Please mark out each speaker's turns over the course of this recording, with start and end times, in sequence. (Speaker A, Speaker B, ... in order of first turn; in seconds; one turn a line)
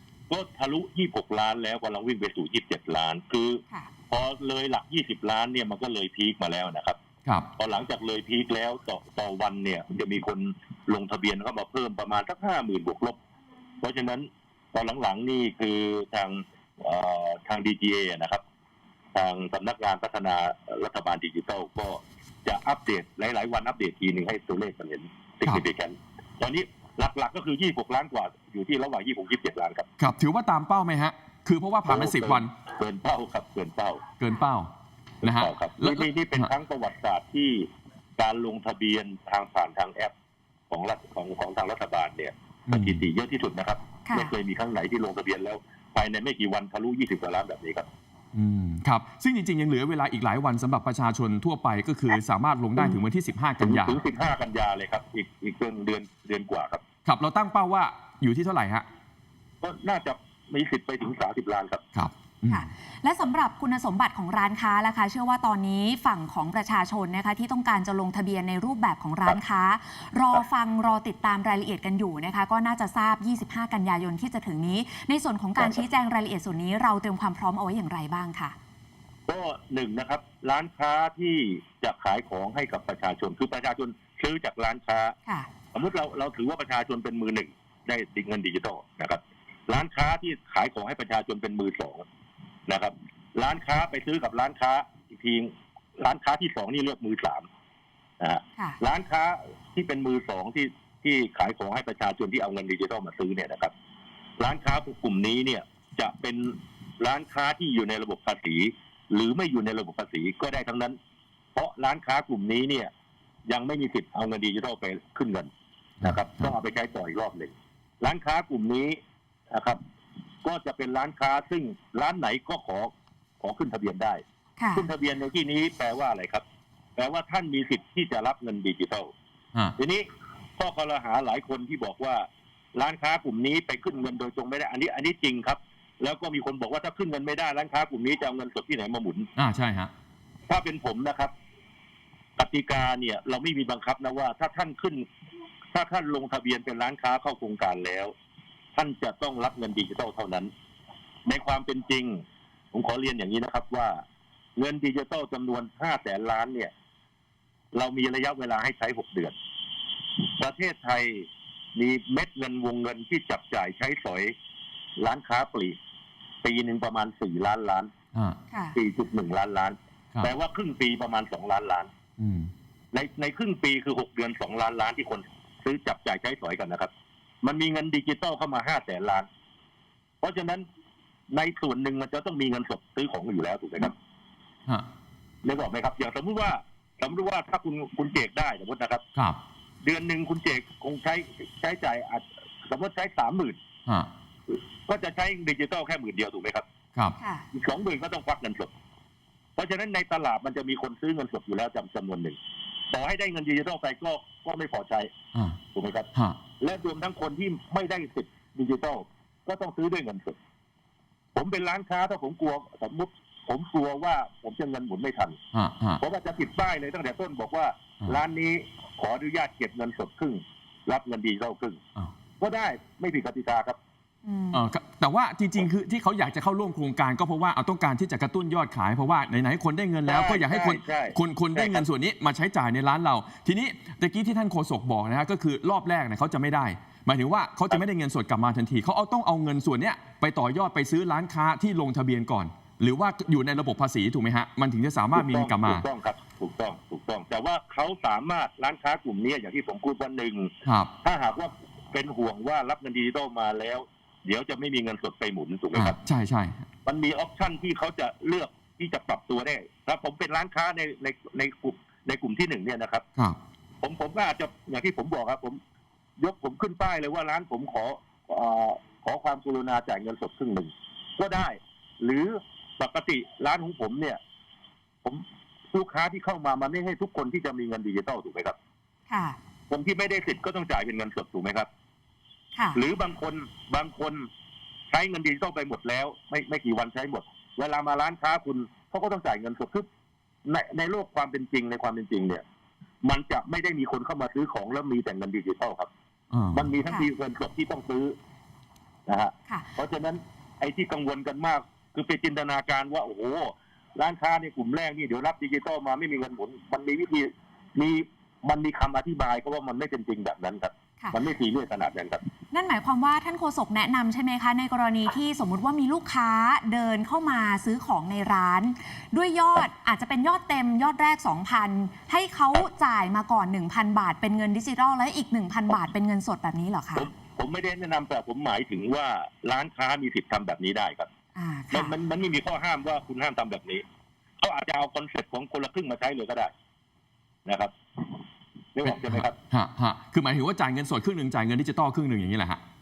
Speaker A: 0.3-7.0
Speaker A: 7.6-13.2
Speaker A: 13.8-18.4
Speaker A: 19.1-29.9
Speaker B: 30.0-32.5
Speaker A: 31.9-34.0
Speaker B: 34.2-34.7
Speaker B: 35.2-36.5
Speaker A: 35.2-37.7
Speaker A: 38.2-40.1
Speaker A: 40.7-47.9
Speaker B: 42.7-43.0
Speaker C: 44.0-44.3
Speaker B: 48.3-54.0
Speaker A: 53.6-56.8
Speaker B: 57.0-58.8
Speaker A: 59.6-61.8
Speaker B: 61.9-62.7
Speaker C: 62.5-78.5
Speaker A: 75.6-75.8
Speaker A: 79.3-85.1
Speaker A: 85.7-92.0
Speaker A: 92.7-97.5
Speaker A: 98.2-103.7
Speaker A: 104.4-111.0
Speaker A: 111.5-112.9
Speaker A: 113.5-115.5
Speaker B: 116.0-116.5
Speaker A: 116.0-119.0
Speaker A: 119.5-119.8
Speaker A: 120.4-124.2
Speaker C: 124.6-124.9
Speaker A: 124.7-126.4
Speaker A: 127.0-129.1
Speaker A: 129.8-130.0
Speaker A: 130.6-139.3
Speaker B: 139.3-139.9
Speaker A: 140.5-141.3
Speaker A: 142.4-145.1
Speaker A: 145.7-148.1
Speaker A: 148.8-150.5
Speaker A: 151.2-152.2
Speaker A: 152.7-154.0
Speaker A: 154.6-156.7
Speaker A: 157.7-159.3
Speaker A: 160.4-164.3
Speaker A: 165.0-165.8
Speaker A: 166.4-167.9
Speaker C: 168.5-168.8
Speaker A: 168.7-171.9
Speaker B: 172.2-172.5
Speaker A: 172.9-176.9
Speaker A: 177.4-179.3
Speaker A: 180.2-180.6
Speaker A: 181.3-183.9
Speaker A: 185.4-189.0
Speaker A: 189.8-193.6
Speaker A: 194.5-196.6
Speaker C: 197.2-197.4
Speaker A: 197.5-198.7
Speaker A: 199.6-202.4
Speaker A: 202.9-205.1
Speaker A: 205.7-206.1
Speaker A: 206.6-210.4
Speaker A: 211.3-215.4
Speaker B: 215.5-216.0
Speaker A: 216.0-221.8
Speaker A: 222.4-223.8
Speaker C: 224.2-224.6
Speaker B: 224.5-245.8
Speaker A: 230.0-231.8
Speaker A: 245.1-250.5
Speaker B: 250.6-250.9
Speaker A: 251.0-255.9
Speaker B: 255.7-256.6
Speaker A: 256.8-263.0
Speaker A: 263.8-265.6
Speaker A: 266.2-274.2
Speaker A: 275.0-278.6
Speaker C: 279.1-279.4
Speaker A: 279.7-281.7
Speaker C: 282.5-282.8
Speaker A: 282.7-284.3
Speaker A: 284.9-289.9
Speaker A: 290.4-292.4
Speaker A: 293.0-295.9
Speaker B: 296.3-296.7
Speaker A: 296.5-298.1
Speaker A: 299.1-312.2
Speaker C: 299.5-299.7
Speaker C: 312.5-327.1
Speaker A: 326.9-331.1
Speaker C: 331.3-331.9
Speaker A: 331.7-333.8
Speaker A: 334.4-336.5
Speaker A: 337.4-338.1
Speaker A: 338.7-339.3
Speaker B: 338.9-342.6